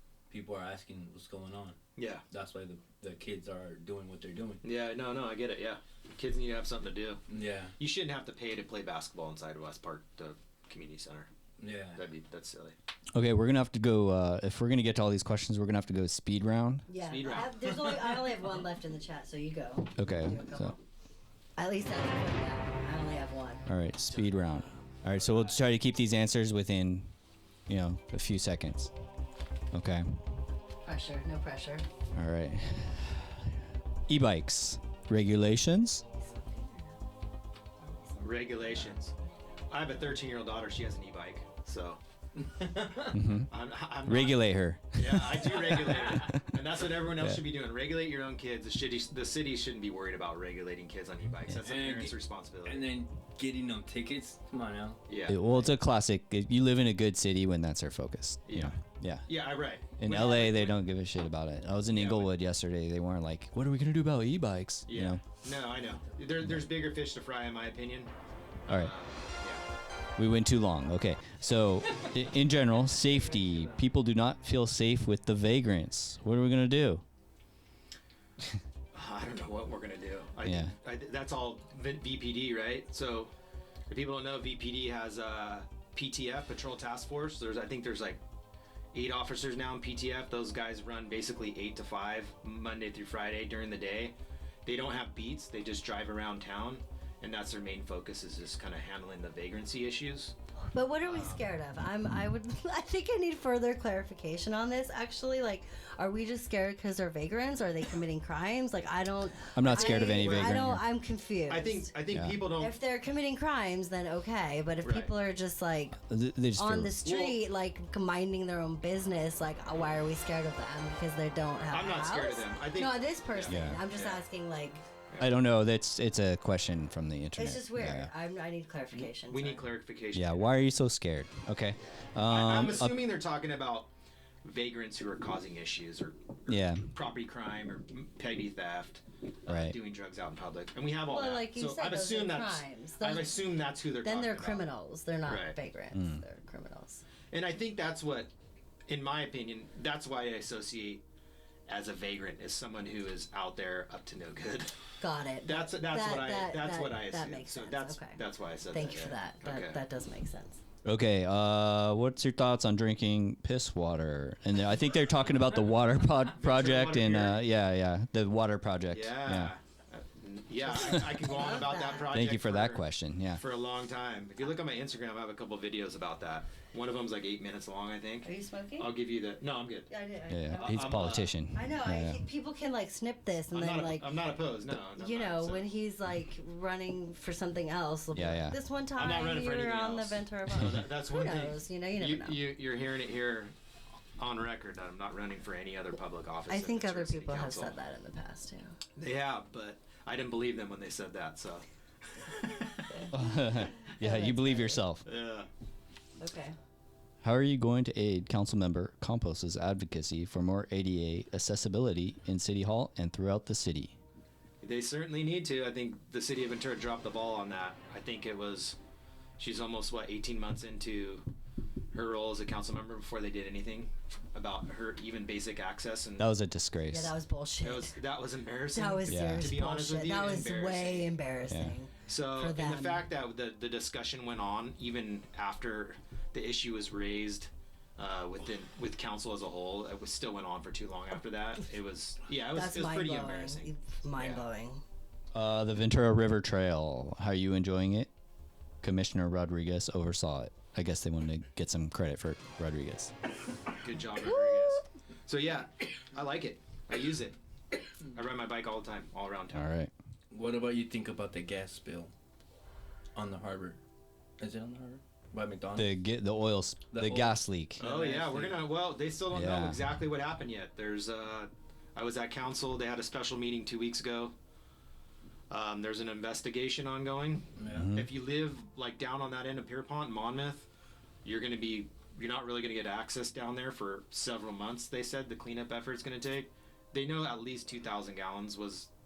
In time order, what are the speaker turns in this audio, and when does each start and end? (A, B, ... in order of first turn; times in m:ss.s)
0:00.3-0:01.8 A
0:02.0-0:02.2 B
0:02.3-0:04.6 A
0:04.6-0:07.2 B
0:07.3-0:07.7 A
0:07.8-0:11.3 B
0:11.6-0:12.0 A
0:12.0-0:12.8 B
0:13.1-0:16.9 C
0:16.9-0:20.8 D
0:17.0-0:18.2 B
0:20.0-0:20.8 C
0:21.6-0:23.7 D
0:23.7-0:27.1 C
0:24.1-0:25.6 B
0:27.7-0:28.9 C
0:29.7-0:30.2 C
0:30.8-0:31.8 D
0:32.1-0:33.5 C
0:34.1-0:36.0 C
0:36.1-0:37.0 D
0:37.8-0:38.2 D
0:38.2-0:39.1 B
0:39.7-0:42.0 B
0:42.4-0:43.2 A
0:43.1-0:43.5 C
0:43.5-0:52.9 B
0:44.0-0:46.4 C
0:51.6-0:55.3 A
0:55.1-0:55.4 B
0:55.3-0:59.3 C
0:58.5-1:00.8 B
1:00.0-1:05.2 C
1:01.9-1:02.3 B
1:04.9-1:08.1 B
1:06.4-1:06.7 C
1:08.7-1:09.7 B
1:08.7-1:08.9 C
1:10.2-1:17.0 C
1:18.9-1:23.3 B
1:20.4-1:20.7 C
1:23.9-1:28.2 B
1:28.9-1:40.4 B
1:40.7-1:51.9 D
1:41.0-1:41.5 B
1:49.6-1:50.9 C
1:49.7-1:50.7 B
1:51.5-1:52.7 B
1:52.1-1:52.4 C
1:52.6-1:56.0 D
1:54.8-1:55.1 B
1:56.0-1:57.0 C
1:56.6-2:04.8 D
1:57.0-1:57.4 B
2:01.7-2:04.2 B
2:03.5-2:03.8 C
2:05.2-2:08.1 C
2:07.4-2:09.7 D
2:08.9-2:10.6 B
2:10.1-2:13.0 C
2:12.2-2:13.9 B
2:14.4-2:24.7 B
2:16.5-2:16.9 C
2:19.5-2:19.8 C
2:21.1-2:23.3 D
2:24.0-2:27.0 D
2:25.3-2:25.6 B
2:25.9-2:26.2 C
2:27.3-2:28.3 B
2:28.9-2:31.0 B
2:31.7-2:34.8 B
2:35.0-2:40.6 D
2:35.4-2:39.8 B
2:40.8-2:49.5 C
2:46.3-2:47.4 B
2:48.9-2:52.8 B
2:50.6-2:52.2 D
2:50.8-2:51.2 C
2:52.0-2:53.4 C
2:53.3-2:59.9 B
2:58.2-2:58.9 D
2:59.9-3:04.3 D
3:00.3-3:02.2 C
3:00.5-3:01.3 B
3:03.5-3:05.7 B
3:04.9-3:12.4 D
3:08.1-3:08.6 C
3:09.0-3:13.5 B
3:14.2-3:17.8 B
3:16.5-3:18.8 D
3:19.0-3:21.7 B
3:22.2-3:23.1 B
3:22.9-3:24.8 D
3:23.1-3:25.0 C
3:25.0-3:25.5 B
3:26.2-3:26.6 D
3:27.2-3:34.0 C
3:34.6-3:38.8 B
3:39.4-3:41.3 B
3:41.9-3:46.3 B
3:46.2-3:47.2 C
3:46.9-3:48.0 D
3:47.6-3:51.2 B
3:48.7-3:53.1 D
3:49.1-3:49.5 C
3:51.5-3:51.8 C
3:52.0-4:04.4 B
4:02.5-4:04.8 D
4:05.3-4:08.1 C
4:08.8-4:13.1 C
4:13.8-4:17.4 B
4:18.1-4:19.6 B
4:19.5-4:19.9 C
4:20.3-4:22.1 A
4:23.2-4:23.8 A
4:24.4-4:26.0 A
4:25.8-4:27.8 C
4:26.9-4:28.7 A
4:27.8-4:34.3 B
4:29.3-4:29.8 C
4:35.5-4:40.7 B
4:37.6-4:37.9 A
4:37.7-4:38.1 C
4:41.2-4:48.9 B